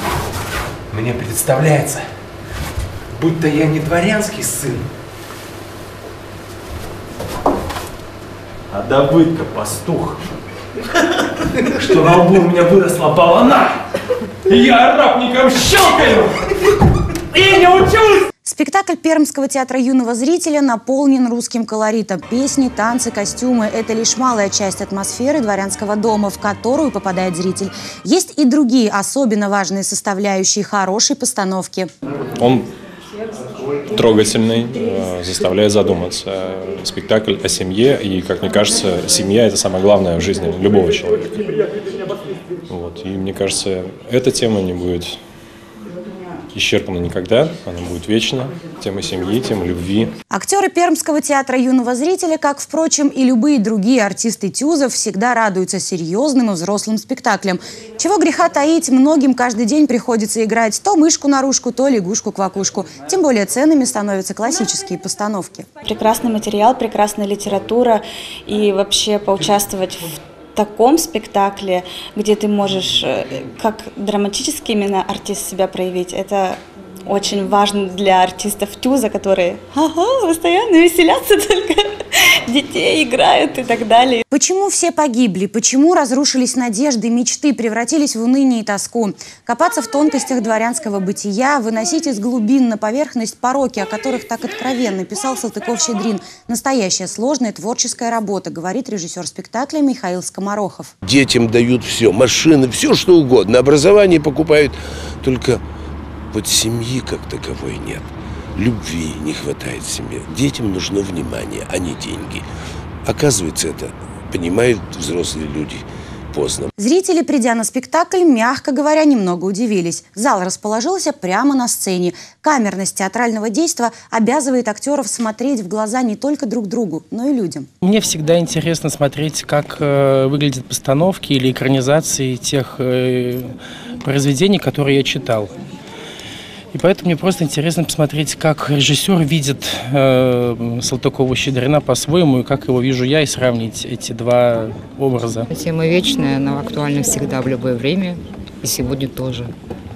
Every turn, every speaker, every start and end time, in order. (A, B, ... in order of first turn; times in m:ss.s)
0:03.2-0:04.7 A
0:08.7-0:10.2 A
0:11.9-0:13.8 A
0:14.5-0:16.3 A
0:17.3-0:18.2 A
0:18.4-0:31.9 B
0:32.4-0:32.7 C
0:33.9-0:41.4 C
0:42.7-0:45.2 C
0:46.5-0:50.1 C
0:50.3-1:05.7 B
1:05.8-1:24.2 D
1:24.3-1:40.9 B
1:41.0-1:45.6 E
1:46.3-1:52.4 E
1:53.0-1:56.7 E
1:56.8-2:07.7 B
2:07.8-2:15.5 F
2:16.7-2:25.5 F
2:25.5-2:29.5 G